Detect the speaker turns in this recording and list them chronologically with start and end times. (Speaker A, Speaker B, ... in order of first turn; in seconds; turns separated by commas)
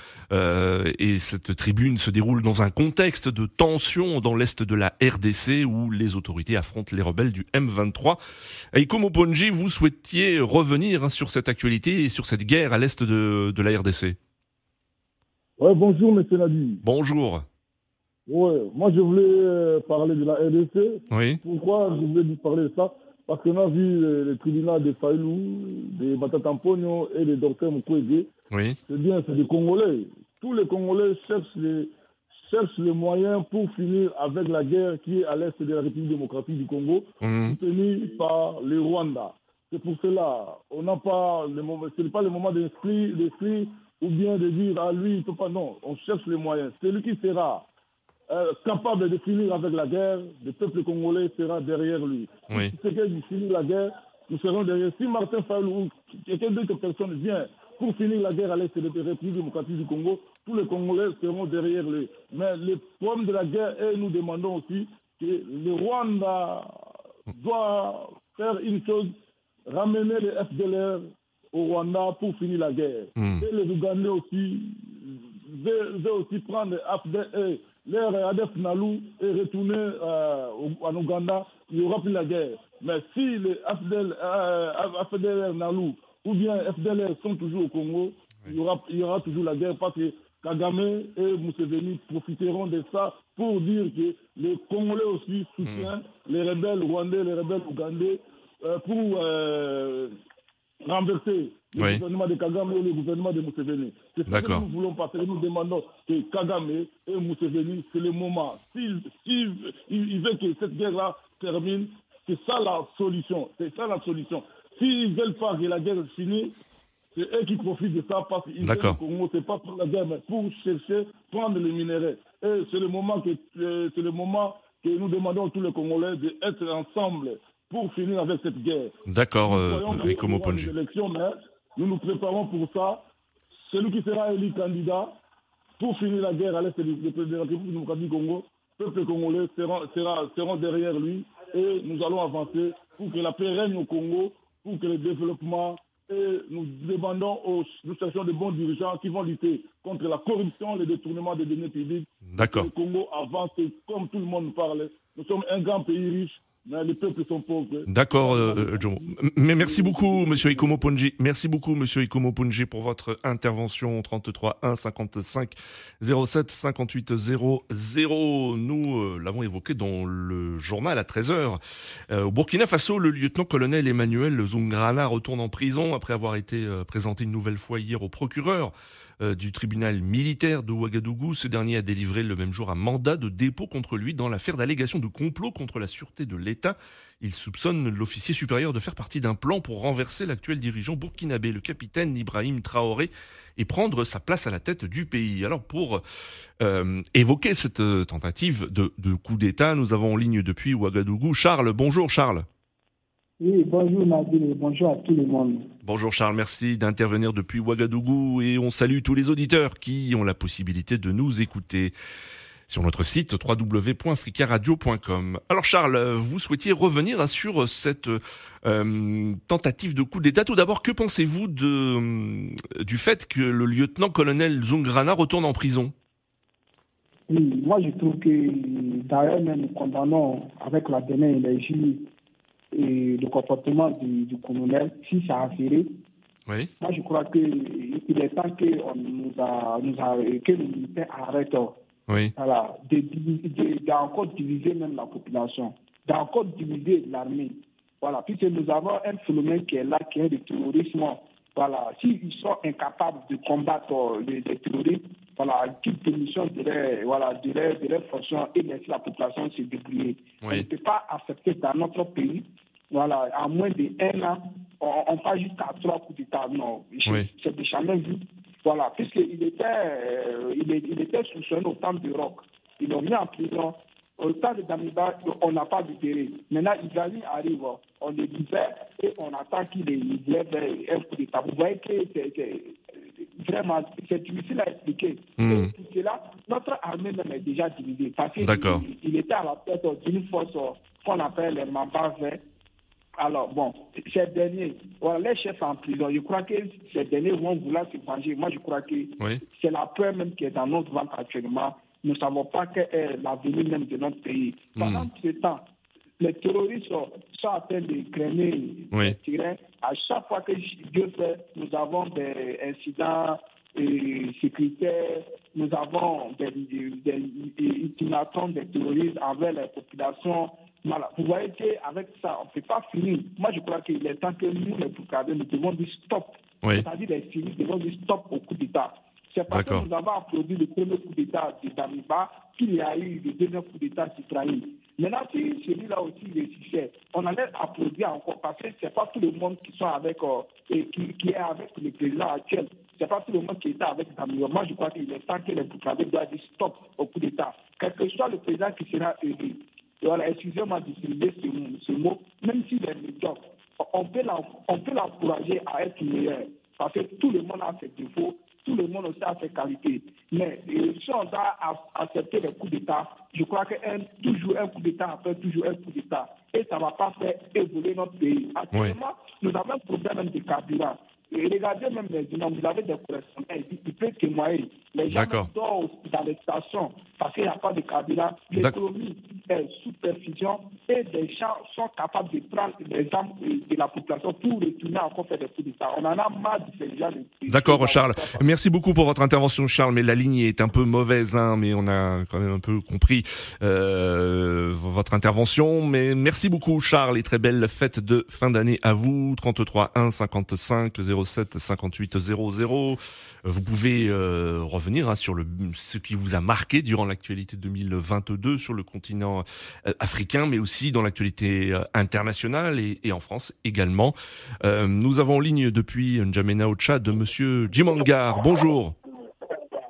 Speaker A: 0.3-14.2, Speaker B: 15.6-16.8, Speaker A: 16.8-17.4, Speaker B: 18.3-28.3, Speaker A: 21.1-21.4, Speaker A: 28.5-28.8, Speaker B: 28.9-47.7, Speaker A: 37.2-37.6, Speaker B: 48.3-69.1, Speaker B: 69.7-100.1, Speaker A: 73.2-73.5, Speaker A: 95.6-95.9, Speaker B: 100.8-116.5, Speaker A: 101.8-102.0, Speaker A: 104.3-104.6, Speaker B: 117.1-133.1, Speaker A: 118.6-119.0, Speaker A: 129.1-130.7, Speaker B: 133.7-135.2, Speaker B: 135.8-160.8, Speaker A: 152.2-152.7, Speaker A: 157.9-196.0, Speaker A: 196.6-202.4, Speaker C: 203.4-205.7, Speaker A: 205.8-211.9, Speaker A: 212.7-225.9, Speaker C: 227.3-232.1, Speaker C: 232.7-235.9, Speaker C: 236.8-241.8, Speaker C: 242.3-292.4, Speaker A: 285.4-285.7, Speaker A: 288.4-288.8, Speaker C: 293.2-305.6, Speaker A: 304.8-305.1, Speaker C: 306.2-388.4, Speaker A: 329.5-329.9, Speaker A: 375.1-375.5, Speaker A: 387.5-418.9